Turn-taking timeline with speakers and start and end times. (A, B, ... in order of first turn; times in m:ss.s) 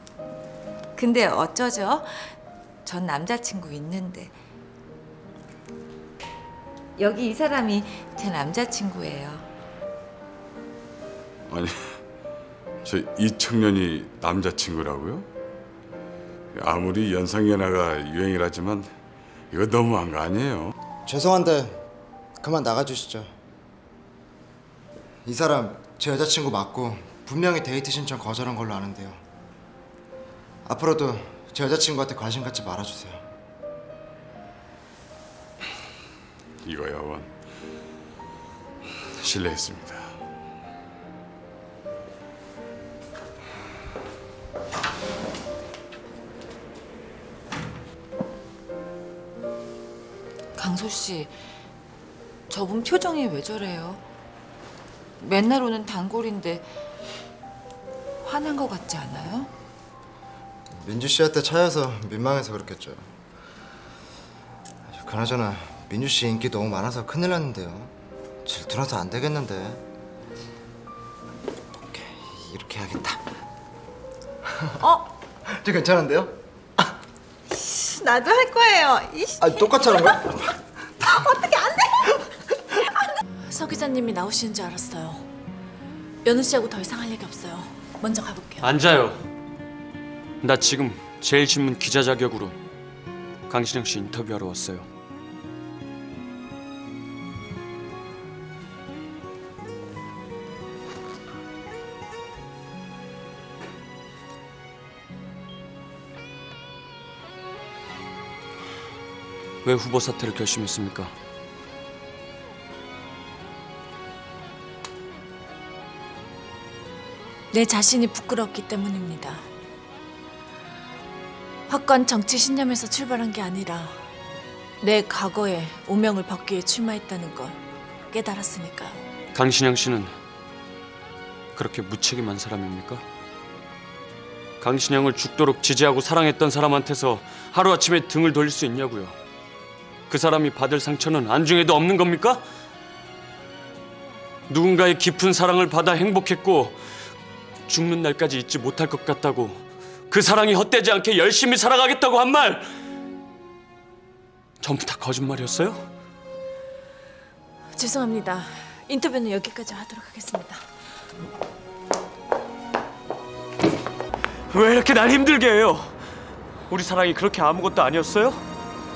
0:01.0-0:04.4 A
0:07.0-0:09.5 A
0:11.5-0:12.0 B
0:12.8-0:15.3 B
0:16.5-0:18.9 B
0:19.5-0:20.7 B
0:21.0-0:21.8 C
0:22.4-0:23.3 C
0:25.2-0:29.2 C
0:30.6-0:33.3 C
0:36.6-0:37.3 B
0:39.2-0:40.2 B
0:50.6-0:51.3 A
0:52.5-0:54.0 A
0:55.2-0:56.7 A
0:58.2-0:59.5 A
1:00.7-1:03.1 C
1:04.9-1:07.9 C
1:08.4-1:09.8 C
1:11.8-1:13.2 C
1:14.5-1:16.9 C
1:17.6-1:19.6 D
1:19.4-1:20.6 C
1:21.0-1:22.0 D
1:23.5-1:25.2 E
1:26.2-1:28.6 E
1:28.6-1:29.2 F
1:30.4-1:32.6 F
1:33.5-1:34.9 F
1:49.6-1:51.1 F
1:57.5-1:59.5 E
2:01.7-2:04.0 E
2:04.8-2:07.6 E
2:08.1-2:09.0 E
2:09.3-2:10.2 F
2:11.5-2:13.0 F
2:14.6-2:19.1 F
2:20.1-2:22.4 F
2:24.5-2:26.8 F
2:27.7-2:32.7 F
2:34.6-2:35.8 F
2:37.7-2:40.6 E
2:44.5-2:46.0 F
2:46.7-2:48.4 F